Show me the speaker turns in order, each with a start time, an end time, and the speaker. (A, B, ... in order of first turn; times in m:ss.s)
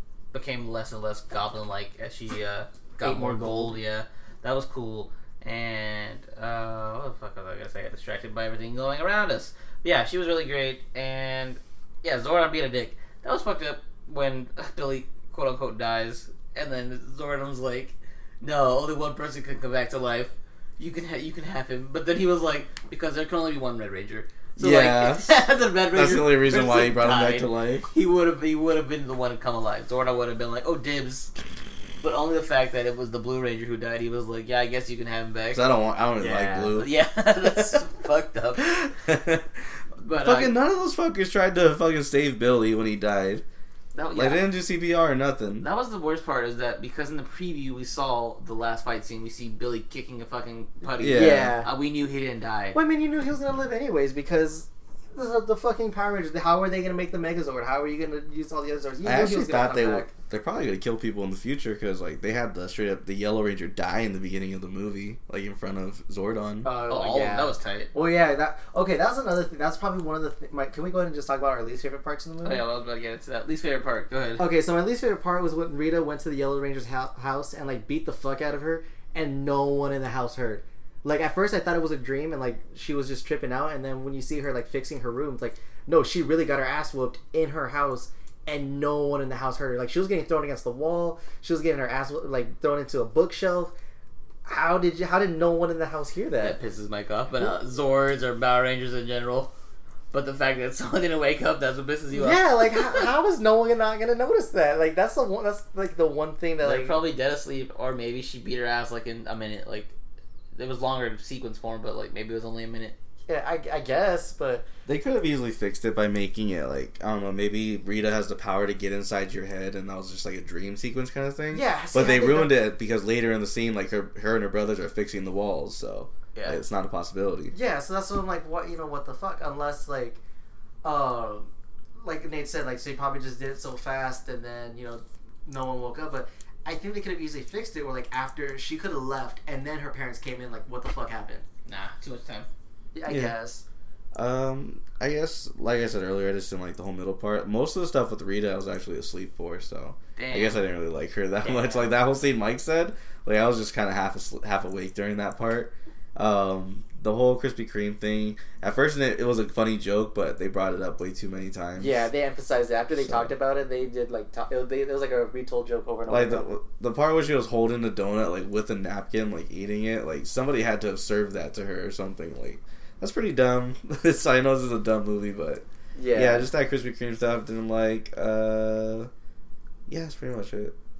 0:00.3-0:31.3 A
0:03.0-0:03.8 B
0:24.6-0:27.9 C
0:32.0-0:35.6 A
0:35.5-0:36.9 C
0:36.2-0:36.7 B
0:36.7-0:38.7 A
0:38.6-0:39.6 C
0:40.0-0:40.5 A
0:40.1-0:43.4 C
0:43.9-0:44.5 A
0:44.1-0:45.6 C
0:45.6-0:52.8 A
0:51.0-0:51.6 C
0:51.1-0:51.7 B
0:52.7-1:00.1 B
0:59.0-1:06.7 C
1:06.6-1:12.6 B
1:06.8-1:07.9 A
1:12.4-1:14.5 A
1:14.4-1:33.7 B
1:34.4-1:36.6 B
1:36.4-1:39.5 A
1:40.1-1:43.1 A
1:42.1-1:46.9 B
1:46.6-1:49.9 A
1:50.5-1:53.0 A
1:53.3-1:54.6 B
1:54.9-2:07.5 C
2:01.5-2:02.6 B
2:06.3-2:06.6 A
2:07.5-2:10.2 B
2:10.8-2:11.5 B
2:12.0-2:21.4 B
2:21.6-2:22.5 A
2:22.9-2:23.6 B
2:23.1-2:23.4 C
2:24.1-2:42.0 C
2:30.2-2:30.6 A
2:31.4-2:31.9 A
2:41.8-2:46.5 B
2:43.0-2:43.3 C
2:46.1-2:59.1 C
2:56.0-2:56.5 B
2:59.9-3:00.7 C